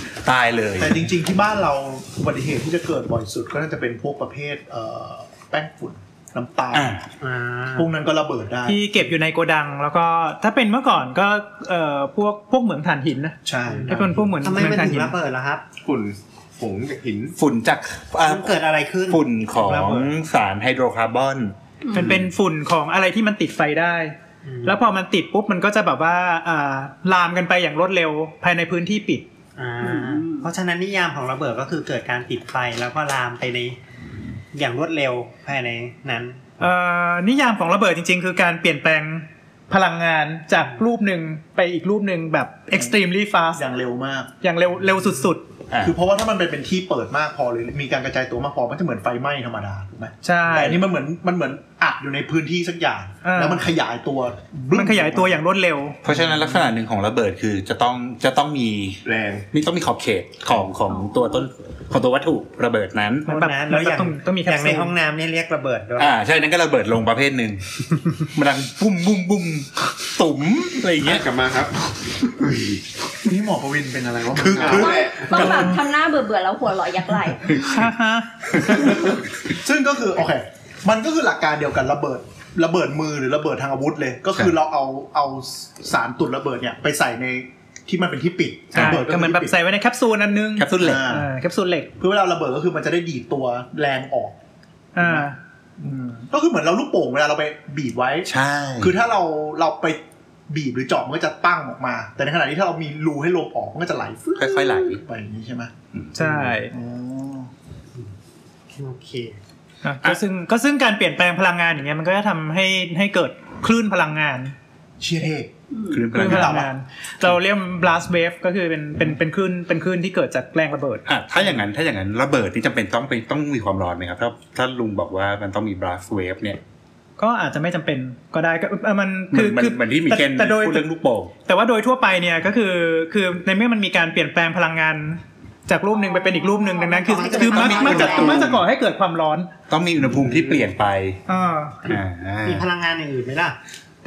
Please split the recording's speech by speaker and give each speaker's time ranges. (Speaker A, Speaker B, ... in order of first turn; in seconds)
Speaker A: 0.2-1.0, 6.7-7.0, 17.4-18.6, 19.1-21.6, 45.7-46.0, 56.0-63.3, 66.0-67.6, 68.2-71.3, 74.4-75.8, 88.7-89.0, 90.6-91.1, 98.3-98.9, 104.4-105.0, 115.9-116.7, 121.1-126.6, 129.3-131.3, 137.3-138.6, 139.7-141.2, 141.8-142.7
Speaker B: 0.8-6.9, 7.8-8.9, 13.4-14.3, 43.6-44.3, 45.8-55.4, 56.1-56.5, 73.2-75.5, 78.8-89.5, 90.8-91.3, 92.0-94.4, 95.0-107.5, 115.0-115.5, 116.2-116.7
Speaker C: 7.2-7.9, 13.7-15.7, 18.3-20.1, 24.4-24.8, 29.6-33.8, 34.5-36.5, 63.3-66.2, 108.7-109.4, 137.1-138.3, 142.4-143.6
Speaker D: 8.7-15.2, 21.9-29.3, 36.6-43.6, 44.4-45.5, 50.2-50.8, 53.2-53.6, 54.7-56.0, 63.3-65.0, 77.5-78.3, 88.7-91.9, 95.0-95.4, 106.2-106.7, 109.8-114.5, 116.1-121.0, 127.2-130.9, 131.4-139.5, 141.3-141.9
Speaker E: 15.8-17.3, 59.0-59.5, 71.0-71.9, 74.5-75.6, 140.1-140.7
Speaker F: 21.8-22.2, 29.8-30.5, 60.9-61.5, 74.6-77.6, 115.7-116.1, 136.0-138.5